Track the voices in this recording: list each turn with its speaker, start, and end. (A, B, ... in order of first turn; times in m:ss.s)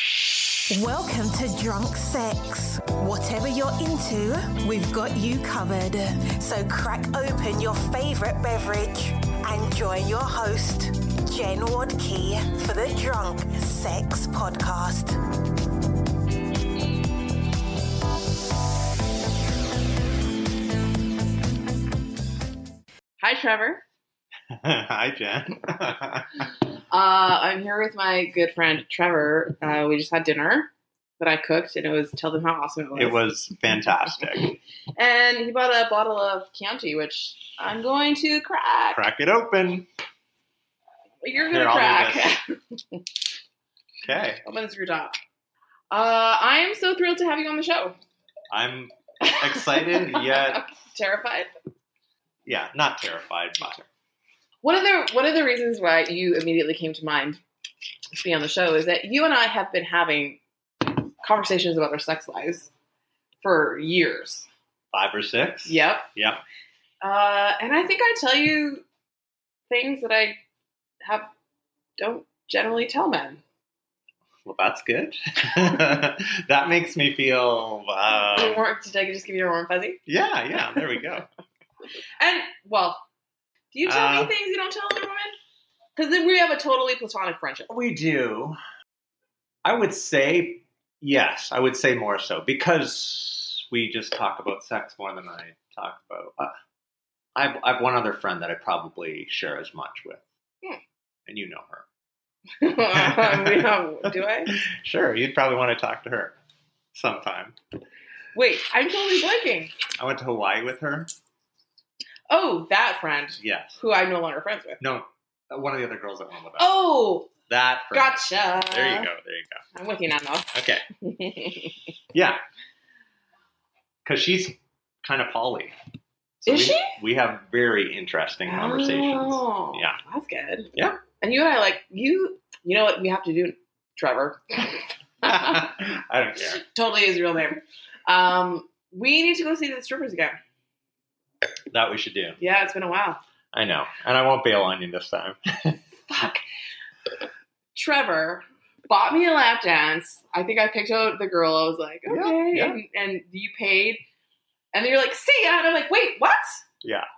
0:00.7-0:15.2 A
0:23.2-0:23.8 B
0:24.5-0:26.5 C
0:26.9-0:33.2 B
0:33.0-0:34.5 C
0:35.0-0:39.0 B
0:38.9-0:39.9 C
0:41.2-0:43.0 B
0:41.5-0:42.3 C
0:44.0-0:44.4 C
0:44.4-0:45.2 B
0:45.9-0:48.0 B
0:48.5-0:50.6 C
0:49.2-0:51.5 B
0:52.4-0:53.9 C
0:54.6-0:57.4 B
0:58.1-1:02.7 B
1:03.4-1:04.5 B
1:04.9-1:06.4 C
1:05.6-1:06.1 B
1:07.0-1:08.8 B
1:09.7-1:10.4 B
1:11.0-1:11.3 B
1:12.0-1:13.4 B
1:14.4-1:18.6 C
1:18.3-1:20.0 B
1:20.1-1:21.2 C
1:22.2-1:23.0 B
1:23.7-1:25.4 B
1:23.8-1:24.3 C
1:26.0-1:27.7 B
1:27.7-1:28.6 C
1:29.6-1:36.5 C
1:37.3-1:40.2 C
1:41.2-1:41.8 C
1:42.6-1:44.5 B
1:42.7-1:43.7 C
1:44.5-1:46.3 C
1:46.9-1:47.6 C
1:48.3-1:49.7 B
1:50.0-1:51.1 C
1:52.3-1:54.8 B
1:53.4-1:53.8 C
1:54.8-1:56.7 C
1:56.6-1:57.3 B
1:57.5-1:59.6 C
1:57.9-1:59.1 B
1:59.7-2:01.9 B
2:00.5-2:00.8 C
2:02.1-2:02.4 C
2:04.0-2:05.8 C
2:06.4-2:10.0 C
2:06.5-2:06.9 B
2:08.4-2:15.7 B
2:10.7-2:11.0 C
2:15.2-2:16.6 C
2:16.6-2:20.4 B
2:21.7-2:22.4 C
2:22.4-2:23.2 B
2:23.5-2:25.8 C
2:26.1-2:26.4 B
2:27.7-2:34.0 B
2:32.1-2:32.8 C
2:34.7-2:36.6 B